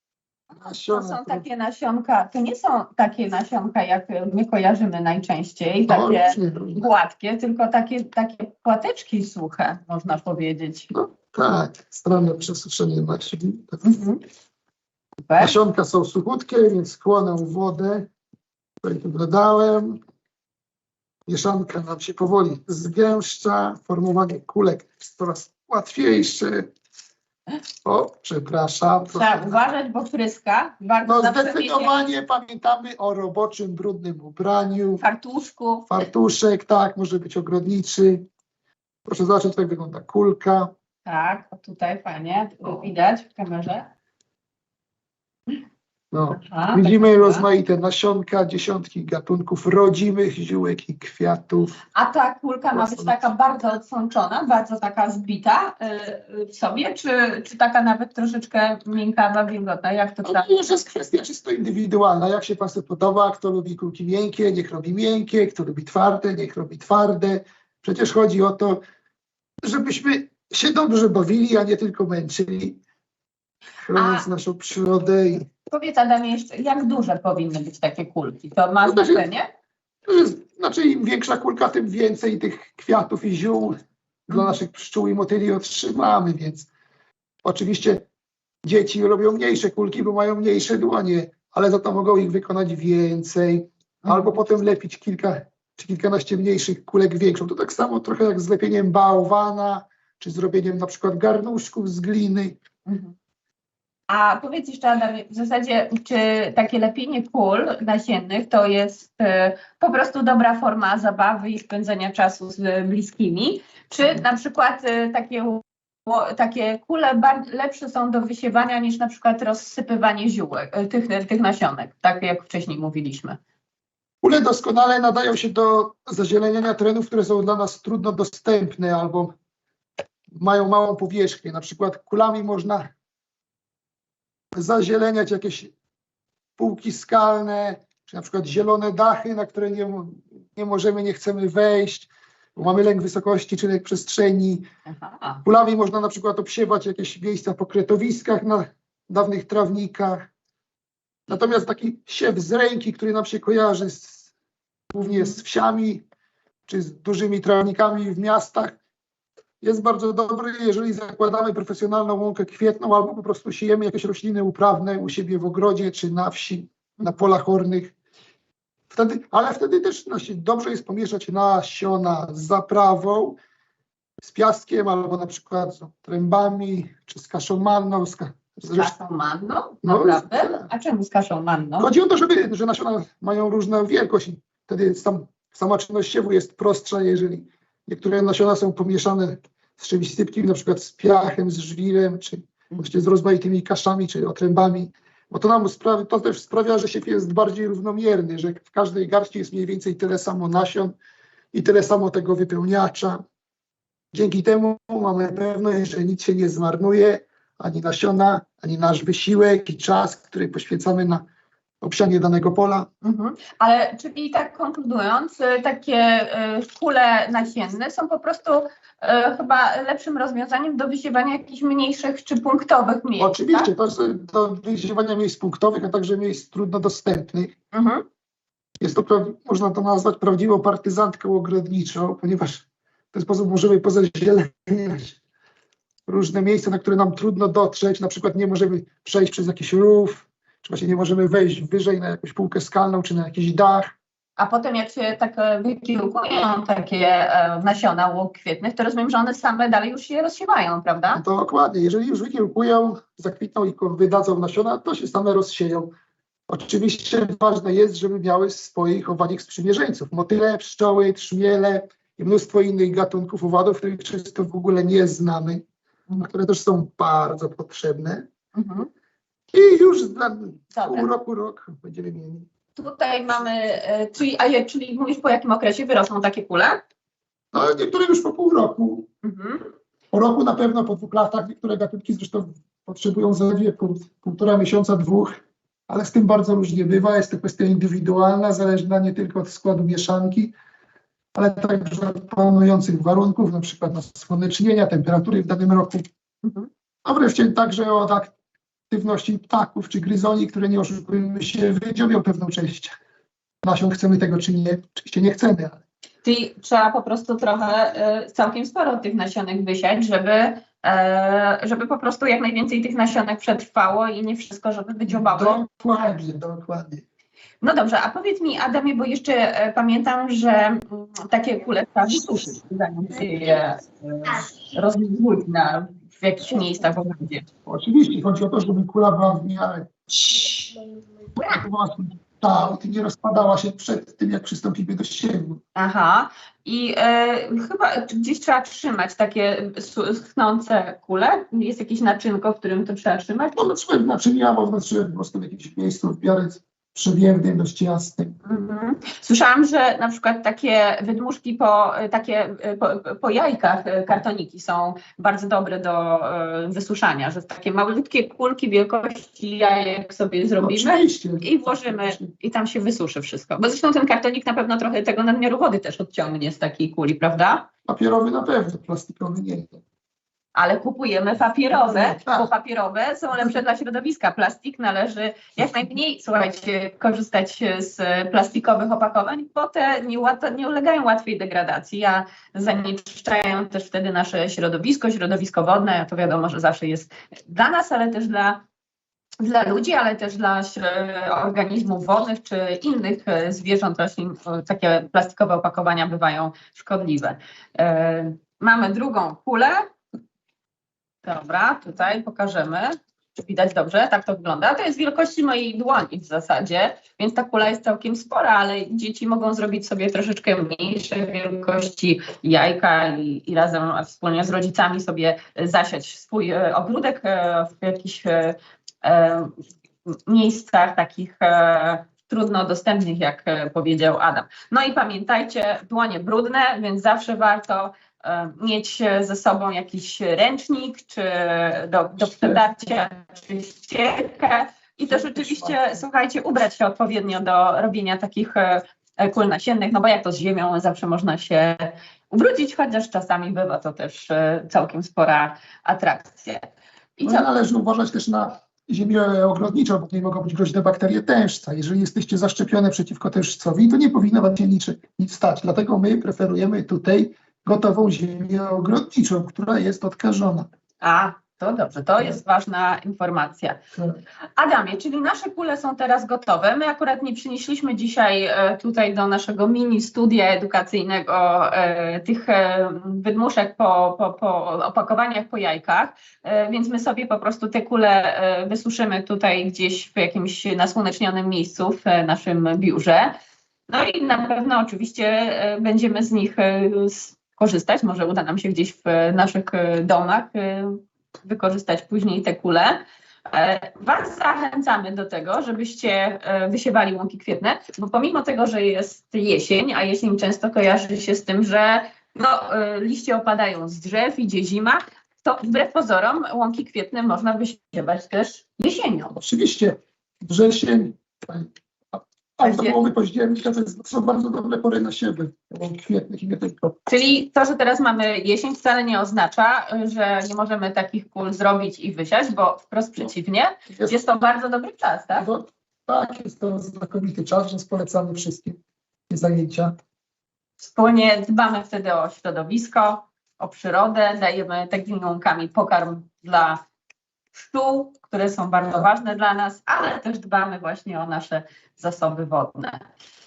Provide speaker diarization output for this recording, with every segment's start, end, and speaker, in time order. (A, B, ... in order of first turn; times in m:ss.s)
0:00.6-0:01.4 A
0:00.9-0:10.9 B
0:05.9-0:06.9 A
0:10.9-0:14.0 A
0:13.8-0:14.2 B
0:15.3-0:15.6 B
0:15.4-0:18.1 A
0:18.8-0:20.0 A
0:21.3-0:26.7 A
0:27.8-0:29.7 A
0:29.1-0:32.0 B
0:31.0-0:35.0 A
0:35.0-0:35.9 B
0:35.9-0:38.3 A
0:39.1-0:40.7 A
0:41.1-0:43.9 B
0:46.1-0:51.8 A
0:46.4-0:47.5 B
0:52.0-1:00.5 B
0:52.7-0:53.1 A
1:00.2-1:08.8 A
1:09.6-1:12.8 A
1:13.8-1:15.5 A
1:14.0-1:14.3 B
1:15.7-1:19.5 B
1:18.8-1:19.2 A
1:20.0-1:26.7 A
1:27.4-1:28.0 A
1:28.6-1:42.6 A
1:34.0-1:34.4 B
1:42.9-1:43.1 B
1:44.1-2:03.4 B
2:04.2-2:09.4 A
2:10.3-2:12.9 A
2:14.5-2:15.7 A
2:16.6-2:24.7 A
2:24.9-2:25.4 B
2:25.4-2:30.3 A
2:31.3-2:34.3 A
2:34.9-2:36.0 A
2:35.0-2:35.4 B
2:36.7-2:38.8 A
2:39.6-2:47.9 A
2:48.9-2:53.4 A
2:54.2-2:58.9 A
2:58.8-3:01.9 B
2:59.8-3:00.7 A
3:01.8-3:21.0 A
3:21.5-3:23.2 A
3:24.1-3:31.3 A
3:31.8-3:32.9 A
3:33.0-3:43.7 B
3:43.2-3:47.5 A
3:47.7-3:48.1 B
3:48.8-3:55.2 A
3:56.1-4:04.0 A
4:04.4-4:11.2 B
4:11.1-4:15.9 A
4:16.5-4:25.6 A
4:26.2-4:28.3 A
4:28.6-4:28.9 B
4:29.5-4:32.5 A
4:30.7-4:31.1 B
4:32.8-4:36.8 B
4:37.5-4:39.1 A
4:39.2-4:39.7 B
4:40.1-4:50.5 A
4:51.4-4:56.0 A
4:56.4-4:56.7 B
4:57.0-4:58.3 A
4:58.9-5:03.0 A
5:03.6-5:05.8 A
5:06.2-5:15.6 B
5:15.1-5:17.0 A
5:17.6-5:27.5 B
5:27.7-5:29.9 A
5:31.4-5:35.6 A
5:35.8-5:43.6 B
5:43.6-5:48.4 A
5:48.4-6:07.7 B
6:00.6-6:02.3 A
6:07.9-6:09.8 A
6:10.6-6:28.6 B
6:11.9-6:12.5 A
6:29.4-6:39.9 B
6:41.2-6:59.6 B
7:00.1-7:26.7 B
7:15.1-7:15.8 A
7:27.2-7:27.5 B
7:27.2-7:40.7 A
7:41.0-7:43.8 B
7:44.6-8:03.4 B
8:03.9-8:29.3 B
8:29.3-8:37.0 A
8:32.6-8:33.0 B
8:37.1-8:45.5 B
8:43.9-8:44.2 A
8:45.4-8:48.8 A
8:49.3-8:50.0 A
8:50.8-8:56.8 B
8:57.6-9:03.0 B